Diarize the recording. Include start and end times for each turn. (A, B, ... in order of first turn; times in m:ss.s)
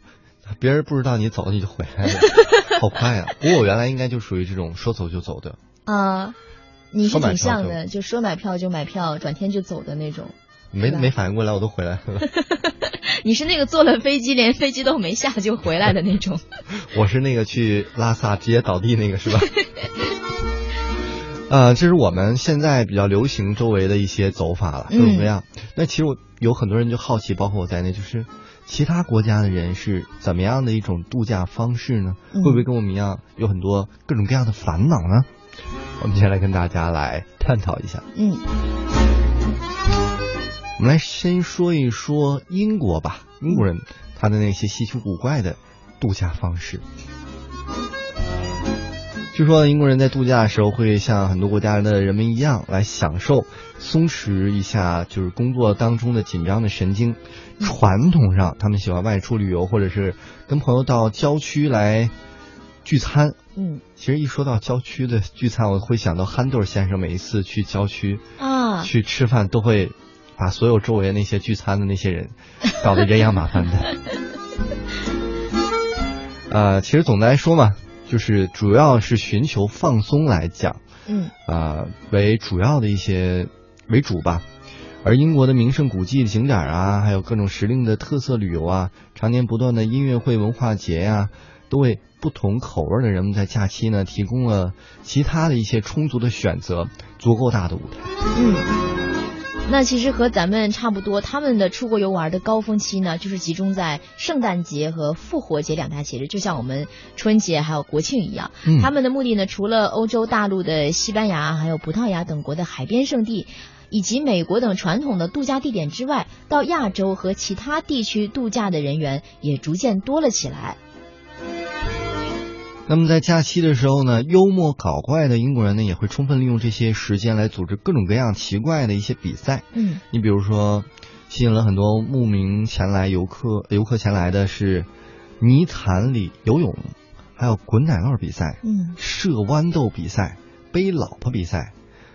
0:00.4-0:05.6 A
0:02.2-0:02.4 B
0:05.8-0:06.4 B
0:06.9-0:11.1 B
0:07.1-0:07.8 A
0:10.7-0:12.3 A
0:12.2-0:16.4 B
0:16.8-0:19.5 A
0:21.5-0:35.3 A
0:24.9-0:25.3 B
0:32.3-0:32.6 B
0:36.0-0:38.0 A
0:38.1-0:38.4 B
0:40.8-0:46.8 A
0:49.3-1:02.1 A
1:02.8-1:03.4 A
1:03.6-1:03.8 B
1:04.0-1:08.2 A
1:08.4-1:08.9 B
1:08.8-1:13.9 A
1:16.5-1:20.8 A
1:21.1-1:21.3 B
1:21.4-1:24.4 A
1:25.0-1:38.1 A
1:38.3-1:38.7 B
1:39.7-2:00.8 B
1:48.6-1:48.9 A
2:02.9-2:14.9 A
2:09.7-2:10.0 B
2:15.4-2:21.7 A
2:18.6-2:19.0 B